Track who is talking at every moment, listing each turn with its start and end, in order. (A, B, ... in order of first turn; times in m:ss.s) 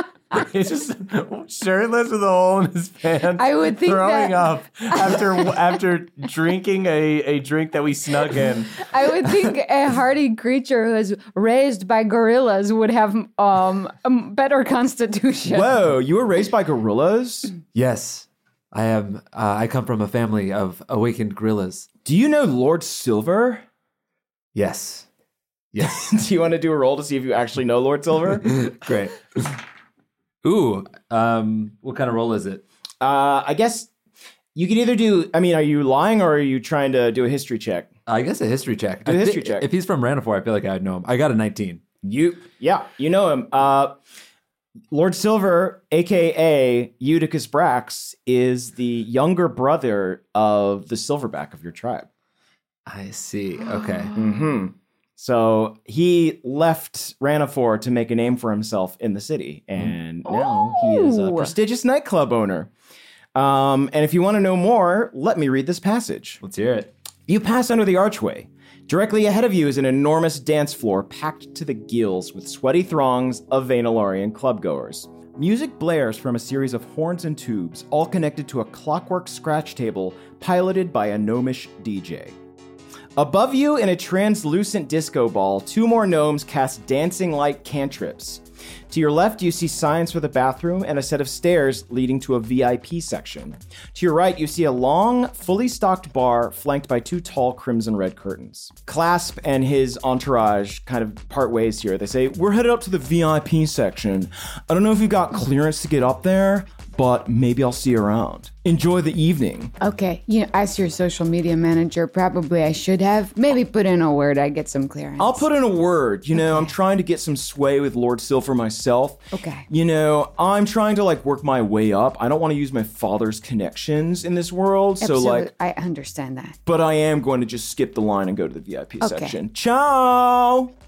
0:00.3-0:08.9 A
0:03.4-0:05.5 B
0:08.8-0:15.7 B
0:15.5-0:17.5 C
0:17.7-0:21.9 D
0:22.0-0:23.6 C
0:24.6-0:25.1 D
0:25.7-0:26.2 D
0:25.8-0:28.5 C
0:28.4-0:29.6 D
0:30.4-0:32.6 D
0:33.0-0:33.9 C
0:34.6-0:37.9 C
0:38.1-0:41.8 D
0:39.0-0:39.7 C
0:42.0-0:44.0 C
0:44.9-0:52.1 C
0:52.9-0:54.1 D
0:54.2-1:02.7 C
1:00.3-1:01.5 B
1:03.4-1:06.4 C
1:06.4-1:06.9 D
1:07.3-1:22.4 C
1:23.2-1:49.7 C
1:49.8-1:55.5 B
1:55.2-2:05.5 C
1:59.3-1:59.7 B
2:05.0-2:06.6 B
2:06.7-2:10.7 C
2:09.0-2:09.3 B